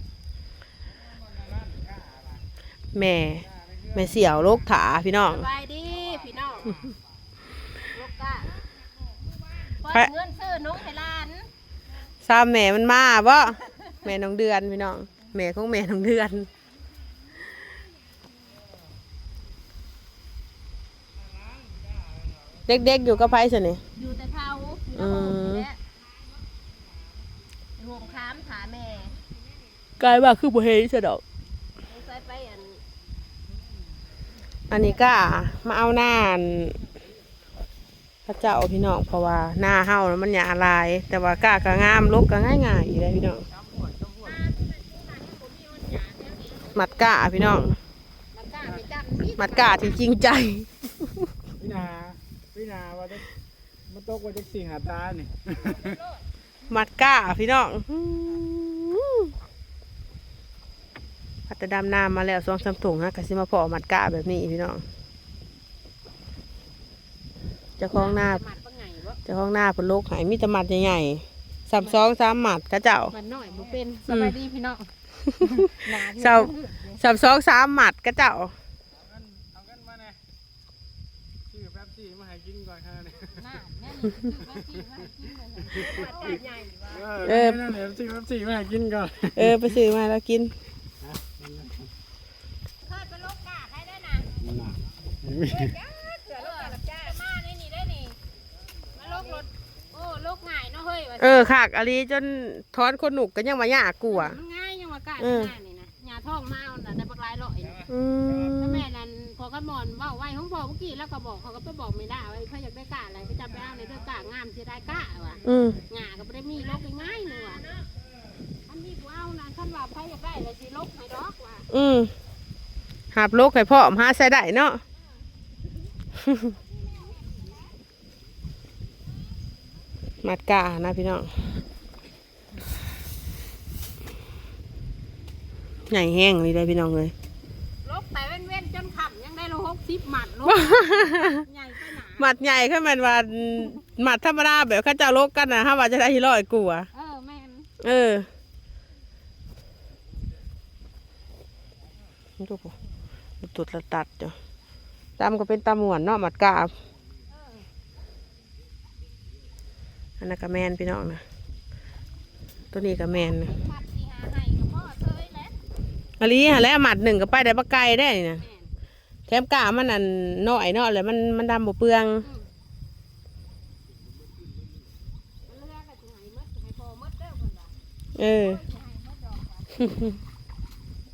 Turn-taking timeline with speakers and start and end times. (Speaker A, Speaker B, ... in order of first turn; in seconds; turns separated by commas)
Speaker A: 1.4-2.1, Speaker B: 2.9-5.5, Speaker C: 5.3-6.9, Speaker C: 7.9-8.6, Speaker C: 9.6-11.5, Speaker B: 12.2-16.5, Speaker B: 22.7-23.8, Speaker C: 23.9-25.8, Speaker B: 25.0-25.7, Speaker C: 27.8-29.2, Speaker B: 30.0-31.2, Speaker C: 31.8-32.8, Speaker B: 34.7-36.8, Speaker B: 38.3-43.5, Speaker C: 44.2-47.1, Speaker B: 46.7-47.8, Speaker C: 48.3-50.1, Speaker B: 49.4-51.3, Speaker A: 51.6-53.2, Speaker A: 53.9-55.8, Speaker C: 55.5-56.2, Speaker B: 56.7-59.3, Speaker B: 61.5-64.8, Speaker B: 67.8-68.4, Speaker C: 67.9-69.2, Speaker B: 69.3-73.1, Speaker C: 71.7-72.0, Speaker C: 73.1-77.0, Speaker B: 74.1-74.3, Speaker B: 76.1-78.5, Speaker A: 79.3-80.2, Speaker A: 81.5-83.3, Speaker C: 83.2-87.1, Speaker A: 86.9-89.4, Speaker B: 87.2-87.8, Speaker B: 89.3-90.5, Speaker A: 91.2-91.9, Speaker C: 92.8-94.4, Speaker A: 94.5-95.6, Speaker C: 95.4-98.2, Speaker C: 98.9-101.5, Speaker B: 101.2-104.4, Speaker C: 104.1-107.9, Speaker B: 105.2-105.5, Speaker B: 107.9-108.8, Speaker C: 108.5-117.9, Speaker B: 115.4-115.8, Speaker C: 118.7-121.7, Speaker B: 121.7-122.1, Speaker B: 123.1-124.8, Speaker C: 126.4-127.7, Speaker B: 130.2-131.3, Speaker B: 135.9-137.1, Speaker C: 137.8-142.3, Speaker B: 140.4-141.4, Speaker B: 142.2-146.9, Speaker C: 146.9-147.7, Speaker B: 147.8-148.3, Speaker B: 152.4-152.7, Speaker B: 153.4-154.4, Speaker B: 155.2-156.7, Speaker C: 157.3-157.7, Speaker B: 160.2-161.2, Speaker B: 162.7-163.5, Speaker C: 163.1-165.6, Speaker B: 166.2-168.4, Speaker C: 168.4-168.7, Speaker B: 169.3-172.3, Speaker C: 172.2-172.5, Speaker C: 175.5-177.7, Speaker B: 178.2-178.6, Speaker C: 178.3-179.7, Speaker B: 179.8-180.2